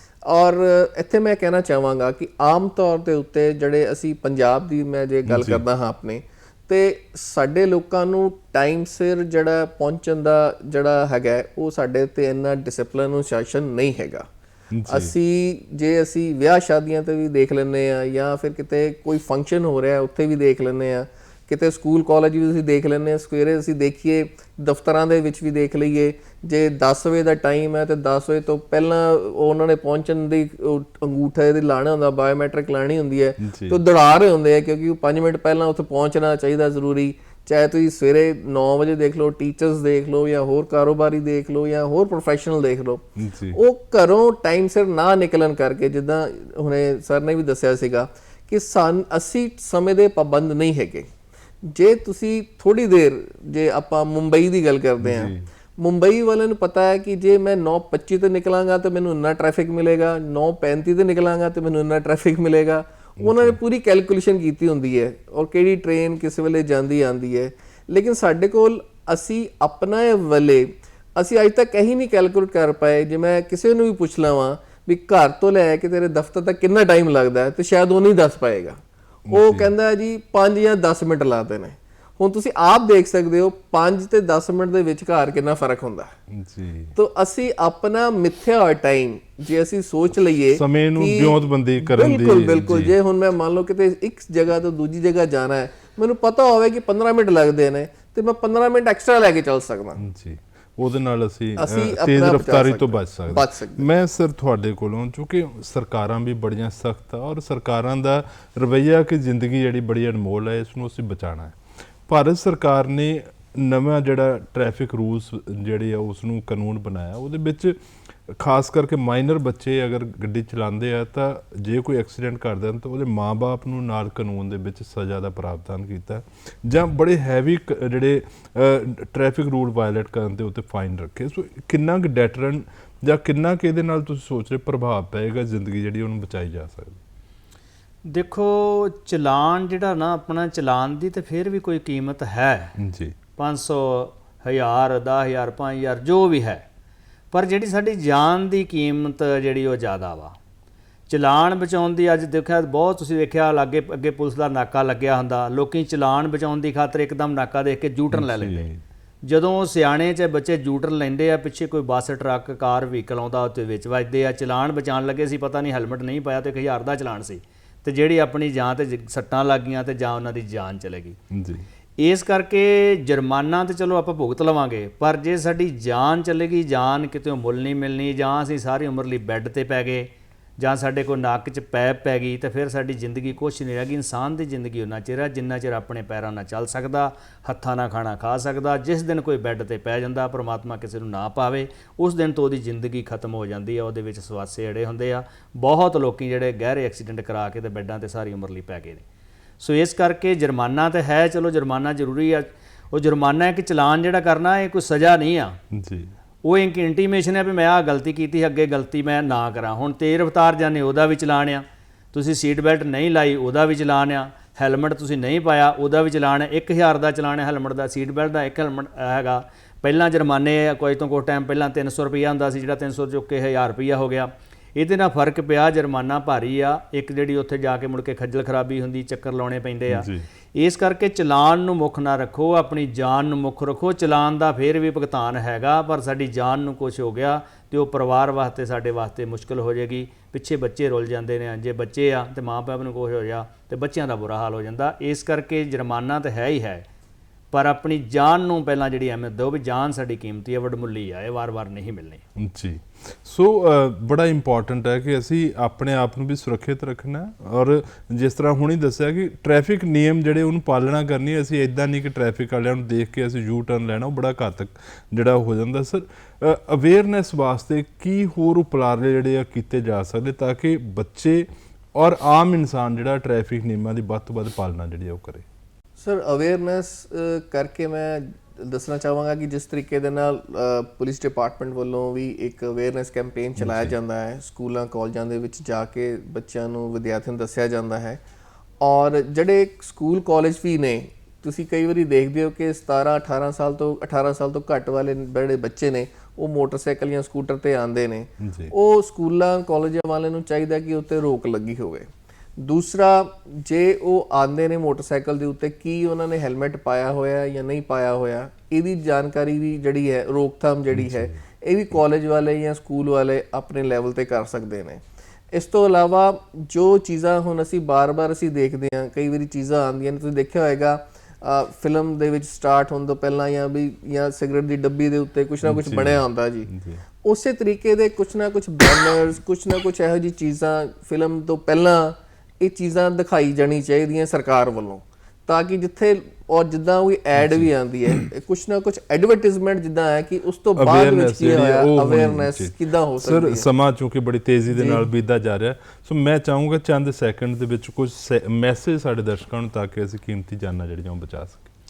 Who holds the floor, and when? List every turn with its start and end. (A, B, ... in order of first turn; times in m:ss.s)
0:00.2-0:14.3 A
0:05.2-0:05.6 B
0:14.7-0:15.1 B
0:14.9-0:51.1 A
0:33.4-0:33.8 B
0:43.2-0:43.6 B
0:51.6-1:26.1 A
0:55.0-0:55.5 B
1:03.2-1:03.6 B
1:19.3-1:19.7 B
1:26.3-1:26.9 B
1:26.9-1:40.0 A
1:30.5-1:32.9 B
1:40.0-1:57.8 B
1:41.6-1:43.9 A
1:58.3-2:17.0 B
2:18.0-2:22.7 C
2:22.8-2:23.2 B
2:23.4-2:26.6 C
2:27.3-2:30.4 C
2:31.1-2:38.7 C
2:38.1-2:38.8 B
2:39.2-2:51.2 C
2:51.3-2:51.6 B
2:52.0-3:19.0 C
3:19.6-3:25.6 C
3:25.7-3:26.1 B
3:26.4-4:06.8 C
3:49.9-3:50.2 B
4:07.5-4:12.2 C
4:12.4-4:35.4 B
4:36.0-4:48.2 A
4:43.6-4:44.0 B
4:48.8-5:26.7 A
4:58.4-4:58.7 B
5:10.9-5:11.3 B
5:25.6-5:27.0 B
5:27.2-5:43.7 A
5:37.4-5:37.7 B
5:40.8-5:51.7 B
5:44.7-5:45.1 A